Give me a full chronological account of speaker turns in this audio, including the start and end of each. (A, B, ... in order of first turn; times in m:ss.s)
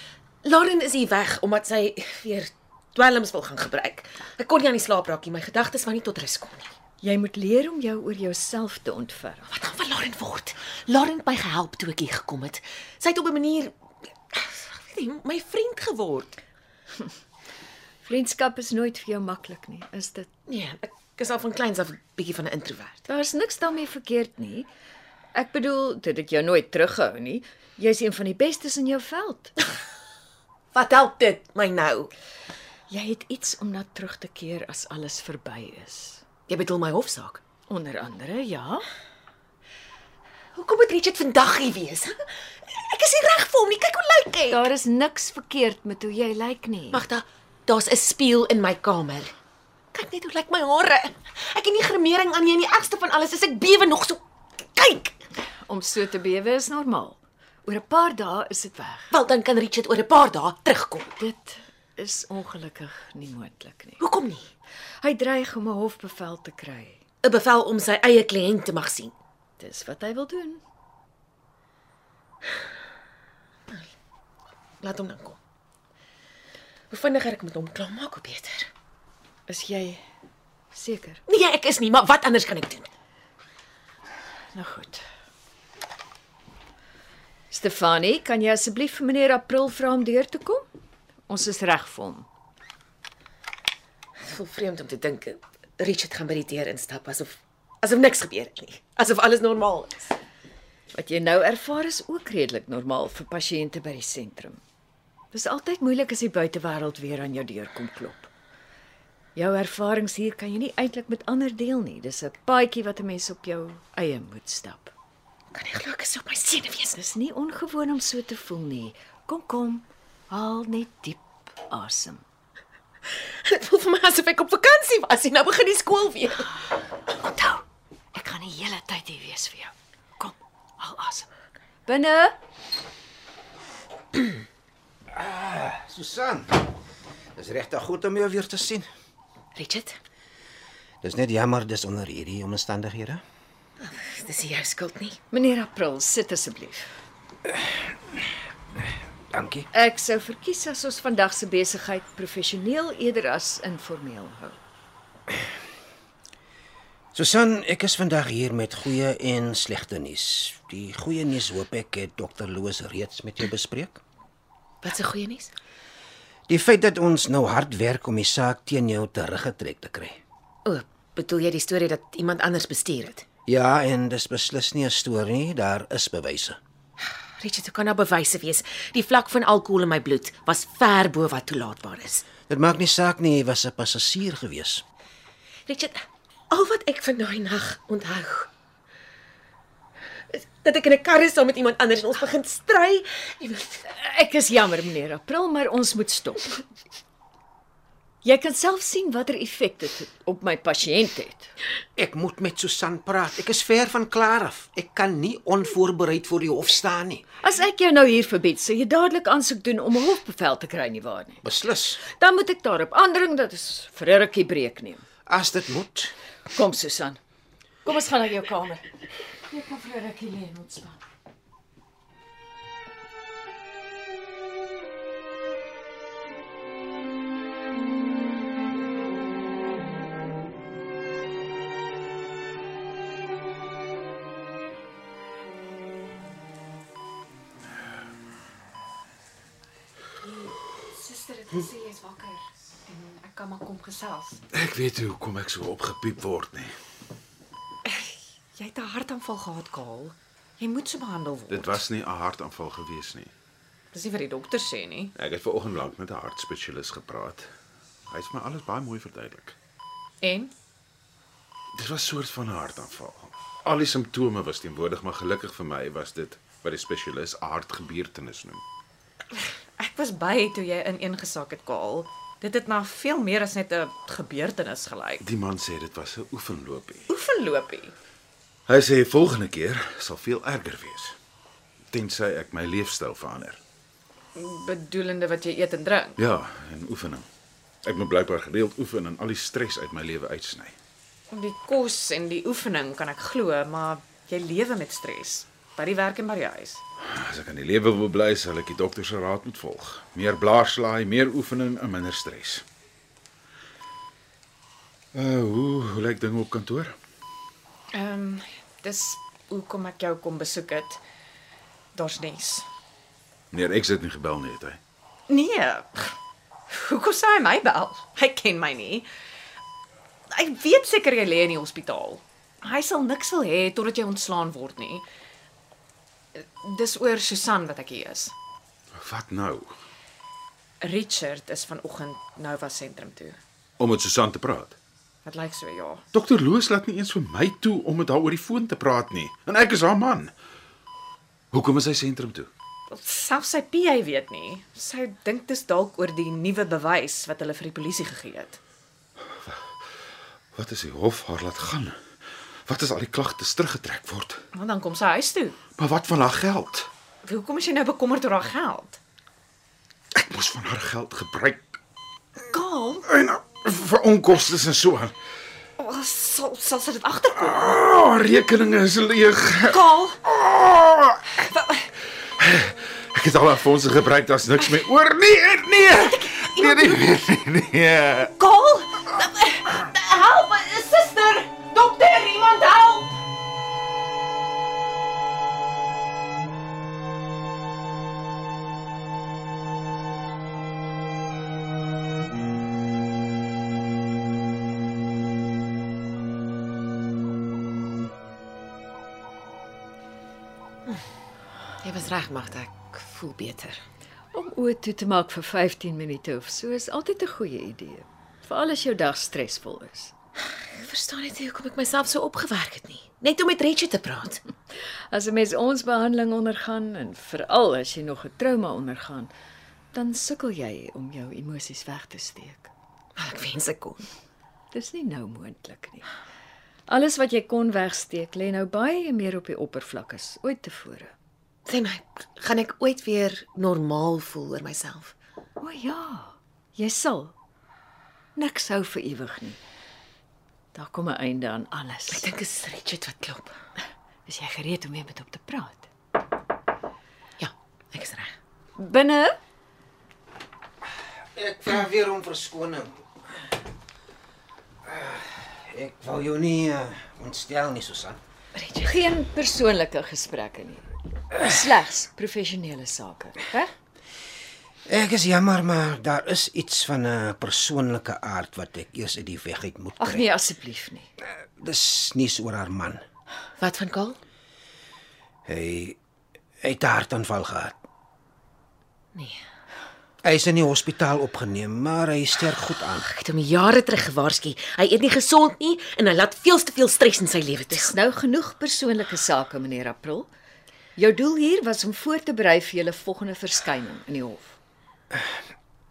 0:00.4-0:06.7 A
0:07.0-0:09.4 B
0:09.5-0:13.7 A
0:14.3-0:16.4 A
0:18.0-0:20.3 B
0:20.5-0:23.0 A
0:23.1-0:24.7 B
0:25.3-0:29.5 B
0:30.7-0:32.1 A
0:32.9-0:36.2 B
0:36.5-0:37.4 A
0:37.7-0:38.8 B
0:40.5-0:44.6 A
0:44.5-0:47.0 B
0:46.9-0:49.3 A
0:49.9-0:55.1 A
0:55.7-0:59.1 B
0:59.1-1:01.1 A
1:01.2-1:04.0 B
1:04.0-1:04.5 A
1:05.0-1:07.0 B
1:07.2-1:09.1 A
1:09.6-1:10.6 B
1:14.8-1:15.4 A
1:16.9-1:18.7 A
1:19.5-1:20.0 B
1:20.7-1:21.2 B
1:21.3-1:22.9 A
1:24.5-1:25.0 B
1:27.5-1:30.6 B
1:31.3-1:32.2 B
1:34.2-1:40.1 A
1:40.9-1:44.6 B
1:45.3-1:48.3 B
1:49.3-1:54.9 B
1:55.5-1:57.0 A
1:56.9-2:02.2 B
2:03.4-2:06.6 A
2:07.1-2:07.6 B
2:08.1-2:11.3 B
2:11.8-2:12.4 B
2:15.1-2:16.6 C
2:17.4-2:18.8 C
2:19.5-2:20.0 A
2:21.0-2:23.2 C
2:23.8-2:25.2 A
2:25.3-2:26.8 B
2:29.3-2:29.7 C
2:29.7-2:34.6 B
2:37.1-2:44.0 C
2:44.8-2:45.5 A
2:46.5-2:50.2 C
2:50.6-2:53.2 A
2:53.5-2:56.6 C
2:57.4-3:02.2 A
3:02.5-3:04.8 C
3:05.7-3:08.5 A
3:10.3-3:13.8 A
3:13.8-3:16.6 B
3:18.2-3:21.5 B
3:22.0-3:27.2 C
3:27.4-3:31.4 B
3:31.4-3:32.0 C
3:32.0-3:35.0 B
3:35.3-3:36.1 C
3:36.5-3:37.2 B
3:37.8-3:38.9 B
3:39.5-3:41.0 B
4:00.2-4:04.4 D
4:04.5-4:06.7 E
4:07.9-4:11.8 D
4:11.5-4:13.3 E
4:13.9-4:15.1 D
4:15.2-4:17.5 E
4:18.1-4:19.6 E
4:20.2-4:20.5 D
4:21.8-4:28.6 E
4:29.8-4:35.2 D
4:35.2-4:37.1 E
4:37.1-4:37.9 D
4:38.7-4:41.1 E
4:41.9-4:43.6 E
4:44.3-4:46.2 D
4:46.2-4:47.3 E
4:47.8-4:50.7 E
4:51.3-4:56.8 D
4:57.1-5:02.6 E
5:05.1-5:07.0 E
5:07.9-5:11.0 D
5:11.9-5:12.6 D
5:13.5-5:14.8 E
5:15.3-5:16.2 D
5:16.7-5:19.1 D
5:20.3-5:25.0 D
5:26.3-5:28.3 D
5:29.0-5:29.7 E
5:30.8-5:33.4 D
5:33.8-5:34.8 E
5:35.2-5:36.0 D
5:36.1-5:40.3 E
5:41.5-5:42.5 E
5:42.9-5:48.6 D
5:50.5-5:52.0 E
5:52.7-5:54.4 E
5:54.5-5:55.6 D
5:55.8-5:56.9 E
5:57.2-5:59.0 D
6:00.2-6:01.8 E
6:02.5-6:03.0 D
6:03.1-6:05.1 E
6:05.8-6:07.5 D
6:07.4-6:11.2 E
6:09.7-6:10.2 D
6:11.5-6:11.8 D
6:12.4-6:18.3 E
6:16.2-6:17.0 A
6:18.4-6:23.2 A
6:18.5-6:19.4 D
6:41.8-6:43.8 A
6:44.3-6:50.1 B
6:50.7-6:54.4 A
6:55.1-6:59.3 B
6:59.9-7:02.7 B
7:03.2-7:04.0 A
7:04.7-7:06.0 B
7:06.9-7:11.1 B
7:11.7-7:15.1 A
7:15.6-7:17.3 B
7:18.4-7:19.6 B
7:20.7-7:22.3 B
7:22.1-7:23.5 A
7:24.3-7:25.9 B
7:27.4-7:28.3 A
7:28.8-7:29.4 B
7:31.3-7:33.0 C
7:34.8-7:38.2 C
7:38.5-7:38.9 A
7:38.8-7:43.7 B
7:44.8-7:50.2 C
7:50.0-7:51.1 B
7:51.6-7:53.0 C
7:53.6-7:54.2 A
7:55.4-7:56.0 C
7:56.6-7:57.8 C
7:59.1-7:59.4 A
8:00.2-8:03.0 C
8:03.0-8:08.0 A
8:07.7-8:10.3 B
8:11.0-8:14.6 B